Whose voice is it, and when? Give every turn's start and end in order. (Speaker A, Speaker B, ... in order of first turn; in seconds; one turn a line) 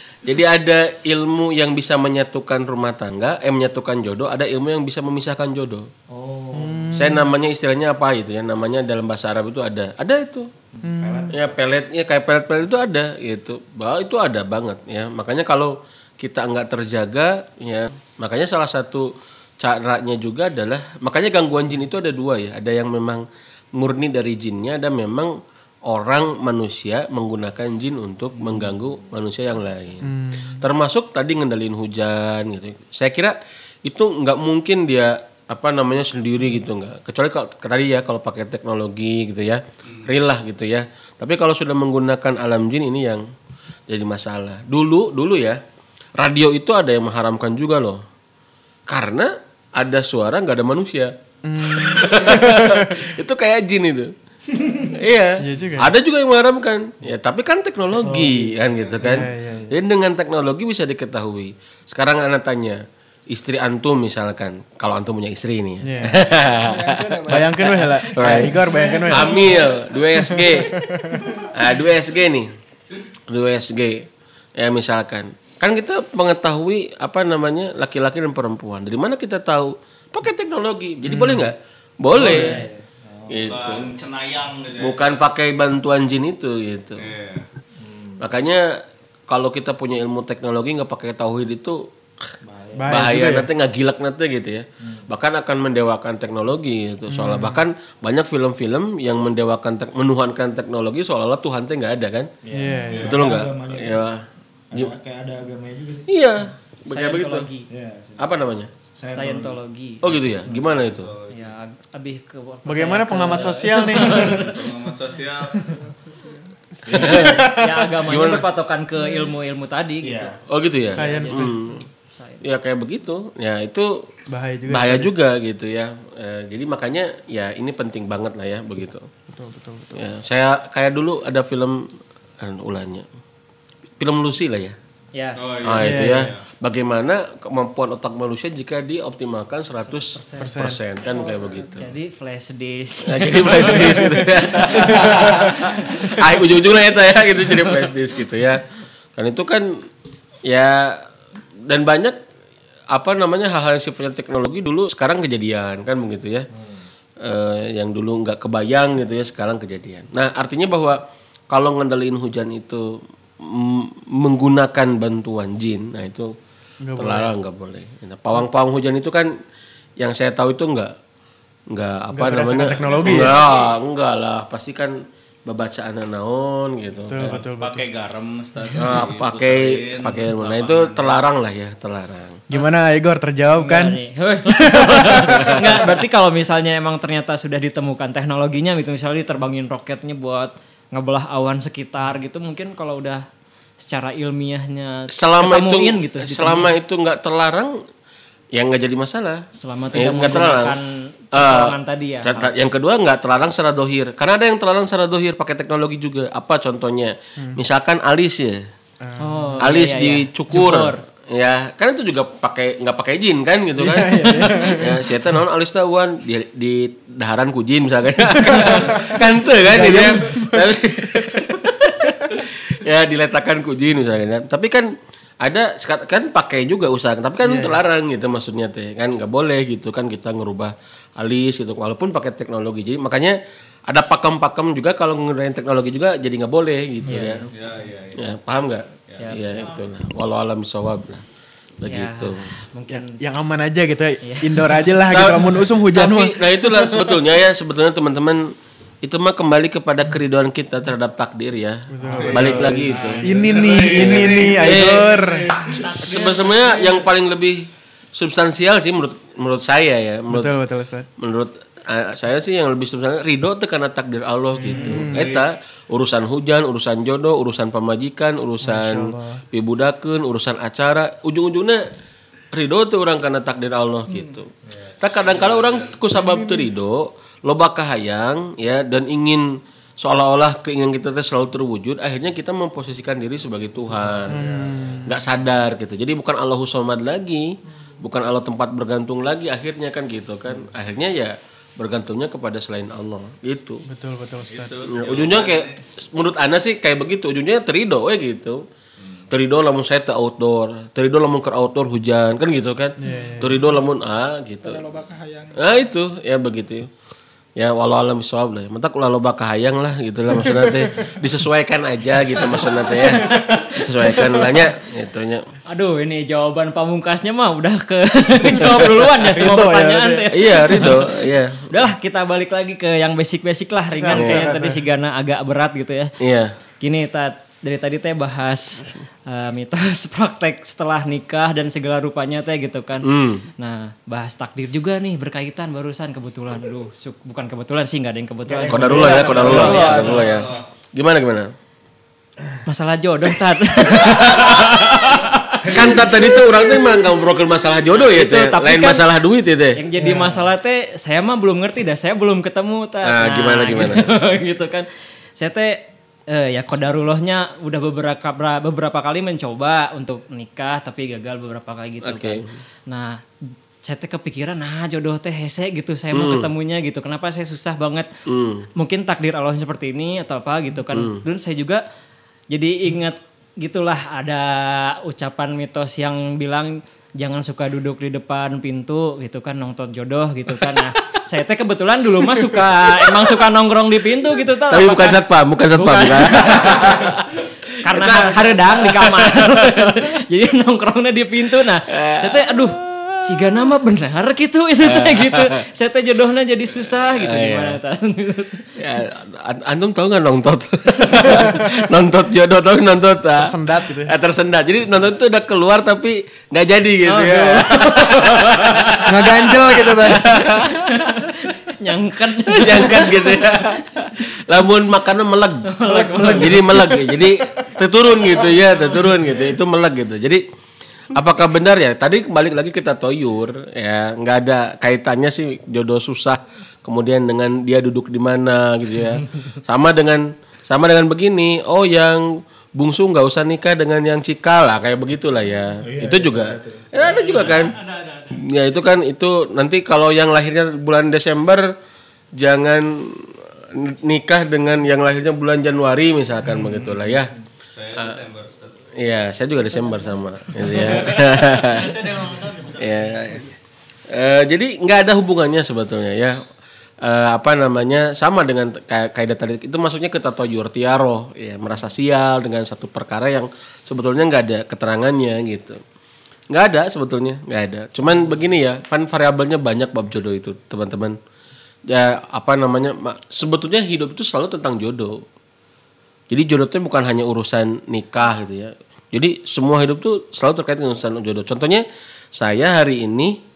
Speaker A: 0.2-5.9
Speaker B: 6.1-7.0
Speaker C: 6.5-7.3
Speaker A: 6.9-10.5
Speaker B: 10.8-11.3
Speaker C: 10.8-11.3
Speaker A: 11.3-19.1
Speaker A: 19.6-23.2
Speaker A: 23.8-43.2
Speaker C: 30.0-30.5
Speaker A: 43.9-45.6
Speaker A: 46.2-48.0
Speaker A: 48.9-51.1
Speaker C: 51.4-53.0
Speaker A: 51.7-54.1
Speaker A: 54.7-70.8
Speaker C: 55.4-55.9
Speaker B: 58.0-58.6
Speaker C: 59.0-59.7
Speaker C: 65.8-66.2
Speaker D: 66.6-67.5
Speaker C: 67.3-69.6
Speaker C: 70.1-71.3
Speaker E: 70.6-71.4
Speaker A: 71.5-72.5
Speaker A: 73.3-74.0
Speaker A: 74.6-82.6
Speaker C: 81.1-81.4
Speaker B: 82.2-83.5
Speaker E: 82.2-82.7
Speaker A: 83.3-83.9
Speaker F: 83.5-85.2
Speaker A: 84.8-87.0
Speaker F: 87.0-87.4
Speaker B: 87.8-88.3
Speaker A: 88.2-88.7
Speaker A: 89.3-91.9
Speaker B: 92.4-93.0
Speaker C: 92.8-93.5
Speaker A: 92.9-102.3
Speaker C: 97.1-97.6
Speaker B: 102.4-104.1
Speaker C: 102.5-103.1
Speaker F: 102.9-103.2
Speaker A: 103.0-104.9
Speaker B: 104.7-106.1
Speaker A: 106.1-107.5
Speaker E: 106.9-107.7
Speaker B: 107.7-108.3
Speaker A: 108.2-108.7
Speaker B: 109.0-109.6
Speaker E: 109.1-110.0
Speaker A: 110.0-111.1
Speaker F: 110.8-111.5
Speaker E: 111.3-114.7
Speaker C: 112.7-114.5
Speaker F: 114.1-115.7
Speaker D: 115.9-116.5
Speaker C: 116.9-117.8
Speaker E: 116.9-120.4
Speaker A: 118.1-118.4
Speaker B: 120.0-120.4
Speaker A: 120.5-121.8
Speaker C: 120.9-121.8
Speaker E: 120.9-121.6
Speaker E: 122.1-122.4
Speaker A: 122.4-124.0
Speaker C: 124.3-125.1
Speaker A: 124.7-129.1
Speaker C: 129.3-130.0
Speaker A: 129.9-131.9
Speaker A: 132.4-133.1
Speaker A: 134.0-134.8
Speaker E: 135.1-135.4
Speaker F: 135.4-136.4
Speaker A: 135.6-141.9
Speaker C: 135.8-136.3
Speaker E: 139.9-146.0
Speaker C: 140.4-140.8
Speaker A: 143.1-148.6
Speaker C: 143.8-144.2
Speaker A: 149.2-149.7
Speaker A: 150.5-151.0
Speaker A: 151.7-152.2
Speaker A: 152.9-156.5
Speaker A: 157.2-166.3
Speaker C: 166.8-167.3
Speaker A: 166.9-169.3
Speaker A: 170.0-170.9
Speaker A: 171.7-177.4
Speaker C: 172.1-173.4
Speaker F: 173.0-173.4
Speaker C: 177.1-177.9
Speaker F: 177.6-181.2
Speaker A: 178.8-182.4
Speaker C: 182.5-184.0
Speaker E: 183.6-193.2
Speaker C: 184.6-185.7
Speaker E: 193.8-196.7
Speaker A: 195.1-197.8
Speaker A: 198.5-200.7
Speaker E: 199.6-202.5
Speaker A: 201.3-208.6
Speaker C: 209.0-209.5
Speaker E: 209.2-211.0
Speaker A: 209.6-224.9
Speaker C: 213.8-215.3
Speaker C: 218.4-221.4
Speaker A: 225.4-237.4
Speaker C: 227.4-227.8
Speaker E: 237.1-237.5
Speaker F: 237.5-238.3
Speaker A: 238.2-241.2
Speaker F: 239.1-239.4
Speaker A: 241.8-242.5
Speaker E: 241.9-243.2
Speaker C: 242.9-247.1
Speaker E: 244.2-244.9
Speaker A: 245.1-253.2
Speaker C: 251.9-255.5
Speaker F: 252.1-255.8
Speaker A: 253.8-255.1
Speaker E: 255.5-257.0
Speaker A: 256.0-260.5
Speaker C: 260.3-261.1
Speaker A: 261.2-271.8
Speaker C: 264.5-265.3
Speaker F: 264.8-265.5
Speaker C: 268.6-269.4
Speaker A: 272.5-279.5
Speaker F: 275.3-276.0
Speaker A: 280.0-284.4
Speaker F: 284.3-284.9
Speaker C: 284.3-285.2
Speaker A: 285.0-287.5
Speaker A: 288.0-293.8
Speaker C: 293.9-294.8
Speaker F: 294.5-295.8
Speaker A: 294.9-298.6
Speaker A: 299.3-304.9
Speaker C: 303.0-303.7
Speaker D: 304.6-305.6
Speaker A: 305.6-306.9
Speaker A: 307.6-315.4
Speaker C: 310.4-310.8
Speaker E: 312.9-314.6
Speaker E: 315.7-321.1
Speaker A: 318.7-319.1
Speaker C: 319.2-320.3
Speaker A: 320.3-321.7
Speaker E: 321.7-326.1
Speaker C: 324.0-324.8
Speaker A: 324.1-324.4
Speaker A: 326.2-326.5
Speaker E: 326.8-333.1
Speaker A: 333.0-333.5
Speaker E: 333.6-340.4
Speaker B: 338.5-340.2
Speaker A: 338.7-341.5
Speaker C: 339.0-340.2
Speaker F: 339.4-340.6
Speaker E: 342.6-346.7
Speaker A: 344.0-344.6
Speaker A: 345.6-349.8
Speaker E: 347.9-349.0
Speaker E: 349.8-354.9
Speaker B: 350.0-350.5
Speaker A: 353.0-354.0
Speaker E: 355.4-363.2
Speaker A: 362.0-362.5
Speaker E: 363.8-368.1
Speaker A: 366.1-366.5
Speaker A: 368.3-368.7
Speaker E: 368.8-371.8
Speaker A: 370.9-371.2
Speaker E: 372.5-385.2
Speaker A: 384.7-387.3
Speaker E: 385.7-387.1
Speaker E: 387.8-398.8
Speaker A: 387.9-389.9
Speaker A: 391.9-393.1
Speaker A: 394.9-395.4
Speaker A: 397.1-397.8
Speaker A: 398.8-411.1
Speaker C: 401.3-401.7
Speaker C: 403.4-404.1
Speaker E: 407.1-409.0
Speaker C: 409.0-410.3
Speaker E: 410.8-413.8
Speaker A: 412.5-415.7
Speaker E: 415.6-417.2
Speaker C: 415.9-416.7
Speaker A: 416.2-420.4
Speaker A: 421.1-437.8
Speaker B: 435.8-437.1
Speaker A: 438.3-441.7
Speaker A: 442.4-447.3
Speaker B: 446.6-447.0
Speaker F: 447.8-448.7
Speaker A: 449.0-452.1
Speaker A: 452.7-453.5
Speaker A: 454.1-456.4
Speaker A: 457.0-465.8
Speaker A: 466.5-471.1
Speaker A: 471.9-475.2
Speaker A: 476.3-481.8
Speaker A: 482.4-483.4